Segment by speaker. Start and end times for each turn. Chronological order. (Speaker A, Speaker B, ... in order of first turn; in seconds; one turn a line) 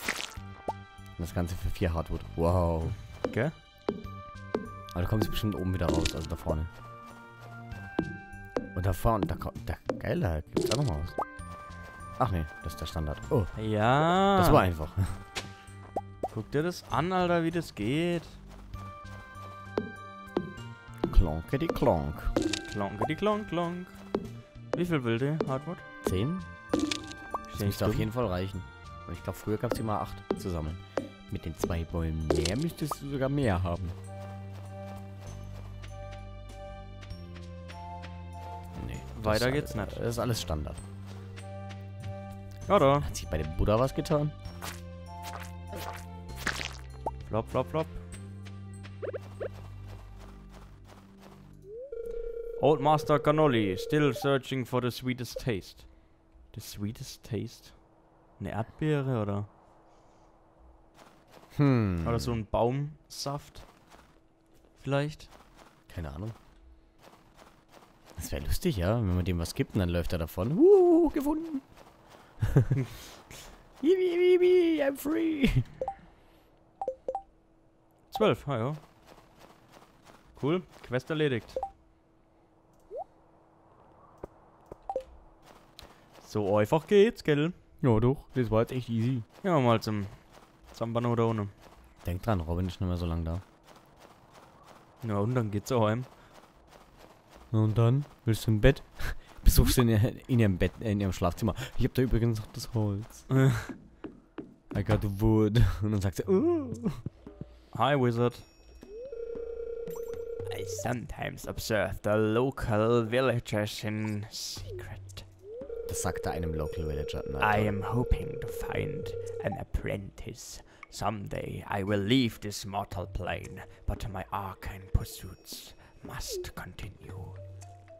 Speaker A: 1.2-3.0
Speaker B: 3.2-3.5
Speaker A: 4.9-6.7
Speaker A: 8.7-11.2
Speaker A: 12.2-15.2
Speaker B: 13.6-14.7
Speaker B: 16.3-18.4
Speaker A: 21.1-22.3
Speaker B: 22.6-24.0
Speaker B: 24.7-25.8
Speaker A: 26.0-26.5
Speaker B: 27.5-28.1
Speaker A: 27.6-34.0
Speaker A: 38.8-40.8
Speaker B: 39.1-40.0
Speaker B: 42.7-43.1
Speaker A: 43.0-44.3
Speaker B: 47.2-48.0
Speaker B: 52.6-57.8
Speaker B: 58.4-59.5
Speaker A: 61.5-62.4
Speaker B: 62.0-63.6
Speaker B: 64.8-65.3
Speaker A: 65.9-66.3
Speaker A: 68.2-71.8
Speaker A: 73.8-75.7
Speaker B: 78.1-78.8
Speaker B: 80.3-81.6
Speaker B: 86.2-87.5
Speaker A: 87.8-89.3
Speaker B: 89.4-91.5
Speaker A: 92.0-93.4
Speaker B: 95.0-96.1
Speaker A: 97.5-103.3
Speaker B: 103.3-103.8
Speaker A: 104.7-107.0
Speaker B: 107.7-108.5
Speaker B: 110.5-115.2
Speaker A: 115.9-117.8
Speaker B: 117.4-127.4